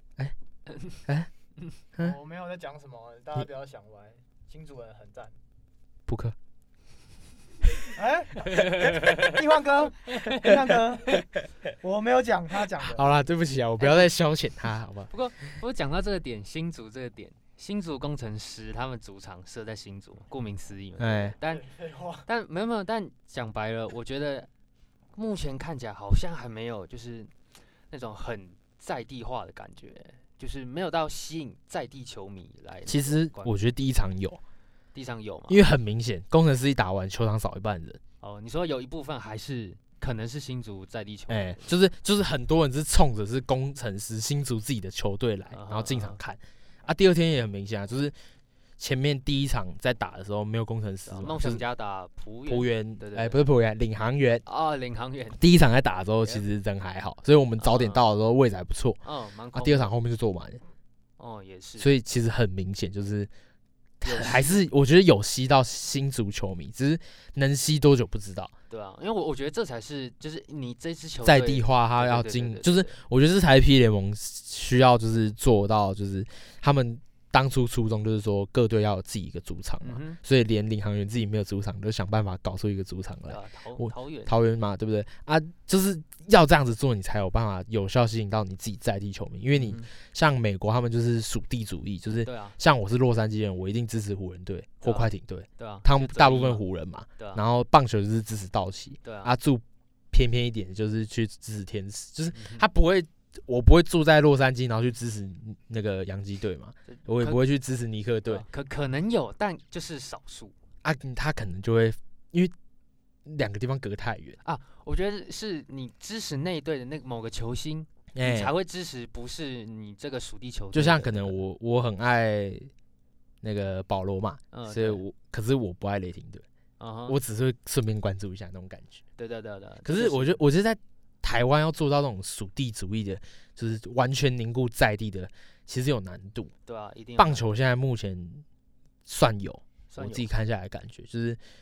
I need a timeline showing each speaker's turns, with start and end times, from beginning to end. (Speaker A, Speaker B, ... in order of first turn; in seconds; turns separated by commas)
Speaker A: 2.0-5.3, Speaker B: 6.1-6.3, Speaker A: 7.8-11.2, Speaker C: 8.5-9.3, Speaker C: 10.1-10.5, Speaker A: 11.8-13.1, Speaker B: 12.8-15.1, Speaker C: 13.8-14.1, Speaker C: 15.1-21.7, Speaker B: 21.0-21.3, Speaker A: 21.4-22.2, Speaker C: 22.2-24.5, Speaker C: 25.1-27.3, Speaker C: 27.9-33.5, Speaker B: 32.9-34.4, Speaker C: 34.9-35.6, Speaker B: 35.5-38.0, Speaker C: 38.2-41.7, Speaker B: 41.3-48.1, Speaker C: 45.5-46.2, Speaker B: 48.8-51.6, Speaker C: 51.0-53.4, Speaker B: 52.5-54.4, Speaker C: 54.5-55.4, Speaker B: 55.4-59.0, Speaker C: 57.6-58.0, Speaker C: 59.0-59.9, Speaker B: 59.5-60.6, Speaker C: 61.2-61.9, Speaker B: 61.8-63.3, Speaker B: 64.0-68.5, Speaker C: 64.0-64.6, Speaker C: 68.7-73.0, Speaker B: 71.2-108.4, Speaker C: 79.8-80.2, Speaker C: 83.3-84.3, Speaker C: 89.5-89.9, Speaker C: 92.2-92.5, Speaker C: 94.8-96.6, Speaker C: 99.0-99.3, Speaker C: 102.3-102.6, Speaker C: 106.9-107.4, Speaker C: 108.3-110.5, Speaker B: 110.8-112.5, Speaker B: 113.2-114.4, Speaker C: 114.4-121.3, Speaker B: 118.1-118.5, Speaker B: 120.7-122.7, Speaker B: 123.4-126.4, Speaker C: 124.5-125.0, Speaker C: 126.8-127.2, Speaker B: 127.1-129.0, Speaker C: 129.2-130.4, Speaker B: 129.8-136.5, Speaker C: 136.7-137.5, Speaker B: 137.2-138.4, Speaker B: 139.1-141.4, Speaker C: 139.9-140.3